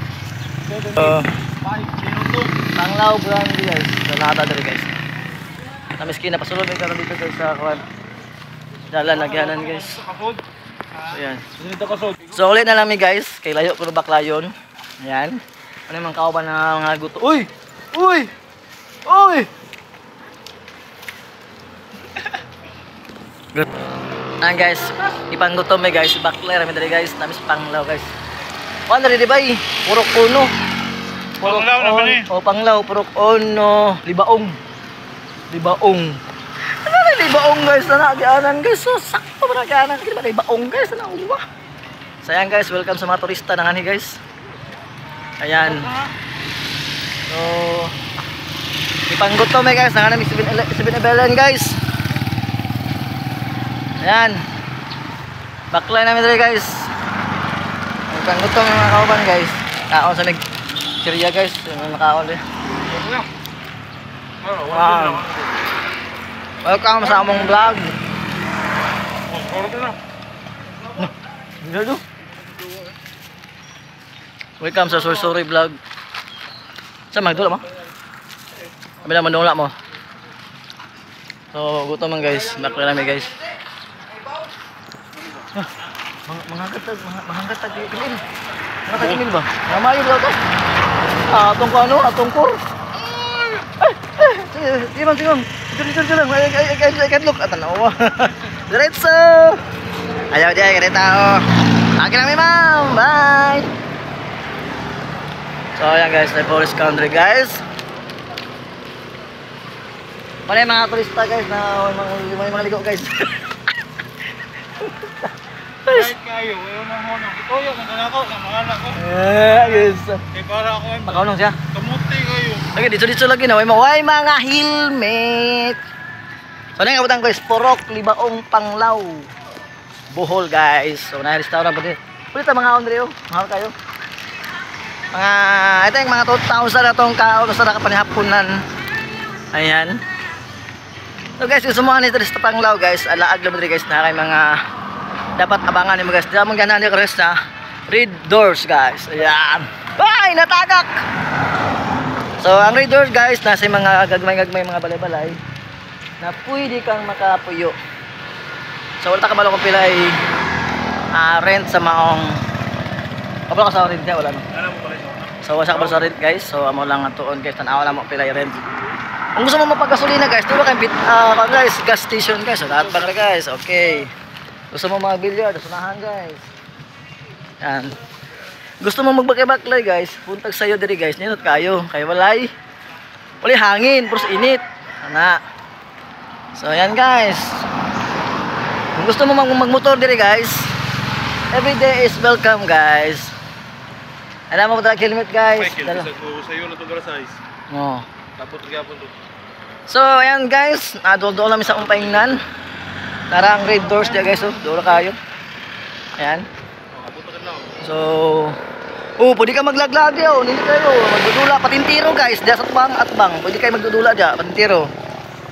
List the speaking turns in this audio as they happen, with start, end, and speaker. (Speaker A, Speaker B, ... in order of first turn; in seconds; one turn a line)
Speaker A: 0.7-2.5
Speaker B: 0.9-1.4
Speaker B: 2.8-5.0
Speaker B: 6.0-7.8
Speaker B: 8.9-10.1
Speaker A: 9.2-10.4
Speaker B: 11.1-11.5
Speaker A: 11.6-12.2
Speaker B: 12.3-18.3
Speaker B: 19.1-19.5
Speaker B: 24.4-28.1
Speaker B: 28.9-30.5
Speaker B: 31.4-34.6
Speaker A: 31.4-32.3
Speaker B: 35.5-41.4
Speaker B: 42.2-44.2
Speaker B: 45.4-45.9
Speaker B: 47.3-47.9
Speaker B: 49.1-51.8
Speaker B: 54.0-54.4
Speaker B: 55.7-56.9
Speaker B: 58.1-60.4
Speaker B: 61.0-62.4
Speaker A: 62.9-63.3
Speaker A: 64.4-65.5
Speaker B: 64.7-65.3
Speaker B: 66.6-68.0
Speaker A: 69.3-70.0
Speaker B: 71.0-72.0
Speaker B: 74.6-75.8
Speaker B: 77.1-77.7
Speaker B: 79.0-79.7
Speaker B: 81.5-83.4
Speaker B: 86.3-88.2
Speaker B: 88.9-90.4
Speaker B: 91.3-92.6
Speaker B: 93.6-99.6
Speaker B: 100.3-103.7
Speaker B: 105.8-107.6
Speaker B: 110.5-113.5
Speaker B: 114.8-115.3
Speaker B: 115.8-116.2
Speaker A: 115.9-119.0
Speaker B: 118.9-120.3
Speaker A: 120.3-121.2
Speaker B: 121.0-121.6
Speaker A: 121.7-122.7
Speaker B: 122.7-125.8
Speaker B: 126.8-129.3
Speaker B: 130.1-133.8
Speaker B: 135.1-138.6
Speaker B: 139.5-140.0
Speaker B: 141.4-144.6
Speaker B: 145.4-151.0
Speaker B: 152.4-155.4
Speaker B: 156.2-157.8
Speaker B: 159.0-160.2
Speaker B: 161.1-162.4
Speaker B: 163.5-164.5
Speaker A: 164.6-165.1
Speaker B: 165.4-168.7
Speaker B: 169.4-174.1
Speaker B: 174.7-176.5
Speaker B: 177.6-177.9
Speaker B: 178.8-182.5
Speaker B: 183.4-185.4
Speaker B: 186.6-187.7
Speaker B: 188.9-190.8
Speaker B: 191.5-193.4
Speaker B: 194.5-196.1
Speaker A: 195.6-197.4
Speaker B: 197.7-198.1
Speaker A: 198.4-199.1
Speaker B: 199.9-202.4
Speaker B: 203.3-205.2
Speaker B: 206.2-206.5
Speaker A: 206.9-207.8
Speaker B: 207.8-208.6
Speaker B: 209.2-214.9